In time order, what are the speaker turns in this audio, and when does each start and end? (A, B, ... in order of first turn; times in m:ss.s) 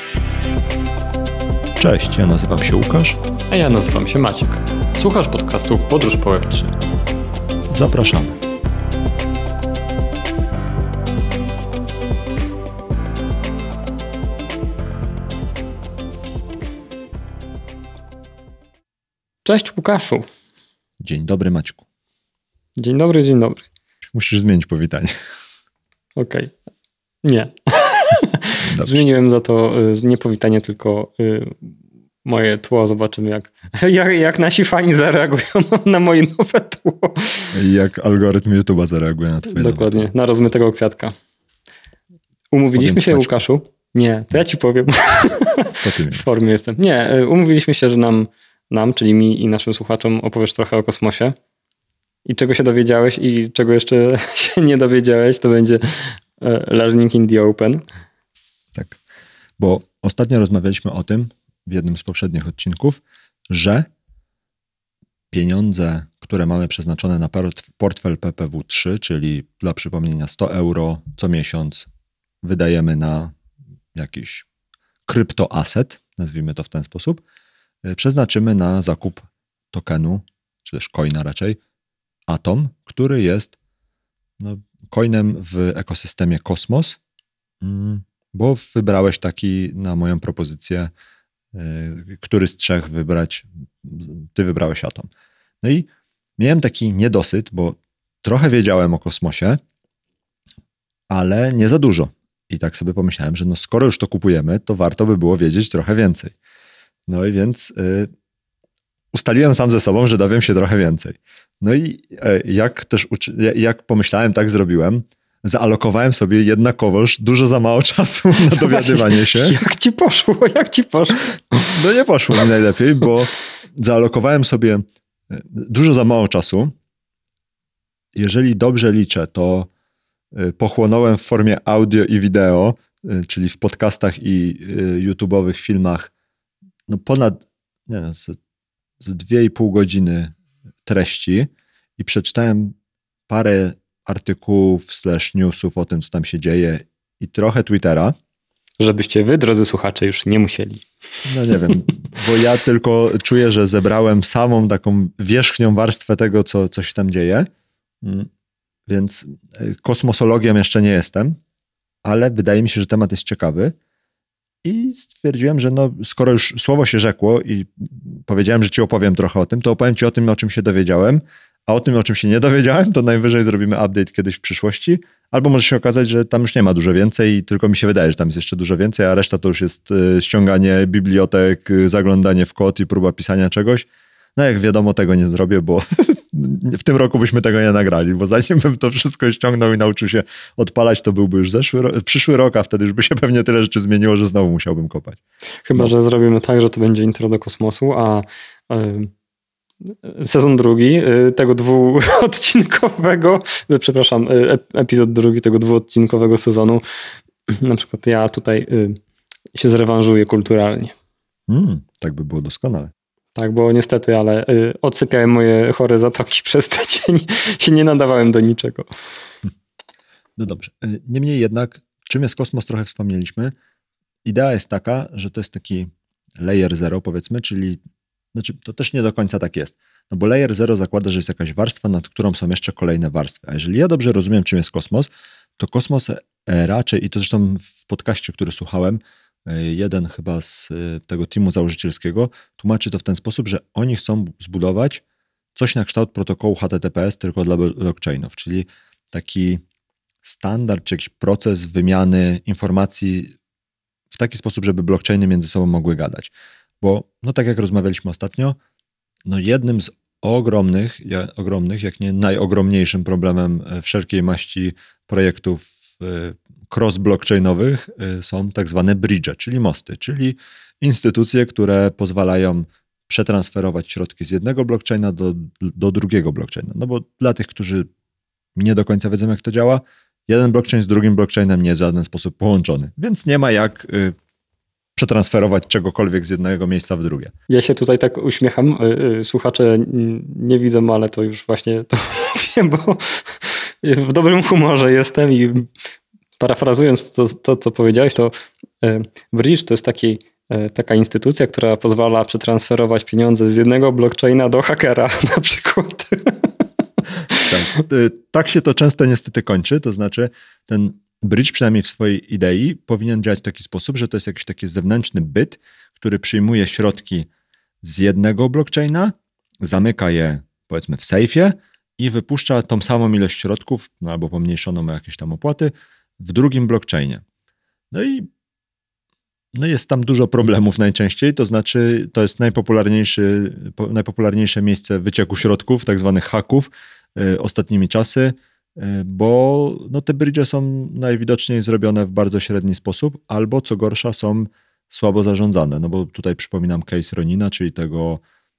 0:01.8-0:03.2 A
0:03.5-0:06.7 B
0:07.7-0:08.4 A
0:19.4-0:20.3 B
0:21.0-0:21.8 A
0:22.8-0:23.7 B
0:24.1-0:25.1 A
0:26.2-0:26.5 B
0:27.2-0:31.7 B
0:28.6-0:29.0 A
0:32.2-0:37.6 B
0:37.5-0:40.1 A
0:39.5-0:41.2 B
0:42.5-0:51.4 B
0:42.8-0:43.3 A
0:45.8-0:46.3 A
0:52.3-0:57.8 B
0:59.6-1:03.9 A
1:05.3-1:11.9 A
1:12.4-1:13.4 A
1:14.0-1:14.5 A
1:15.1-1:17.2 A
1:17.8-1:21.6 A
1:22.3-1:23.6 A
1:24.4-1:27.0 A
1:27.6-1:30.9 A
1:31.5-1:35.1 A
1:35.6-1:39.6 A
1:41.1-1:46.4 A
1:47.1-1:48.1 A
1:49.1-1:59.6 A
1:58.4-2:01.8 B
2:01.6-2:06.7 A
2:08.2-2:09.7 A
2:10.3-2:16.1 A
2:16.9-2:18.4 A
2:19.0-2:20.3 A
2:20.9-2:22.8 A
2:23.3-2:28.2 A
2:28.8-2:30.9 B
2:31.3-2:37.5 A
2:31.5-2:31.8 B
2:38.0-2:38.3 A
2:38.9-2:41.4 A
2:42.0-2:43.8 A
2:44.6-3:15.2 A
3:15.6-3:19.1 B
3:19.8-3:26.8 B
3:27.5-3:29.0 B
3:29.6-3:31.0 B
3:31.5-3:32.9 A
3:33.4-3:38.9 B
3:40.4-3:43.5 A
3:44.2-3:47.8 A
3:48.3-4:05.0 A
4:05.6-4:09.6 A
4:10.2-4:13.4 A
4:14.1-4:18.6 A
4:19.3-4:37.9 A
4:38.6-4:44.2 A
4:45.0-4:47.3 A
4:47.5-4:55.7 B
4:56.4-5:06.5 B
5:07.4-5:17.3 A
5:17.8-5:27.2 A
5:27.9-5:28.3 A
5:29.5-5:48.2 A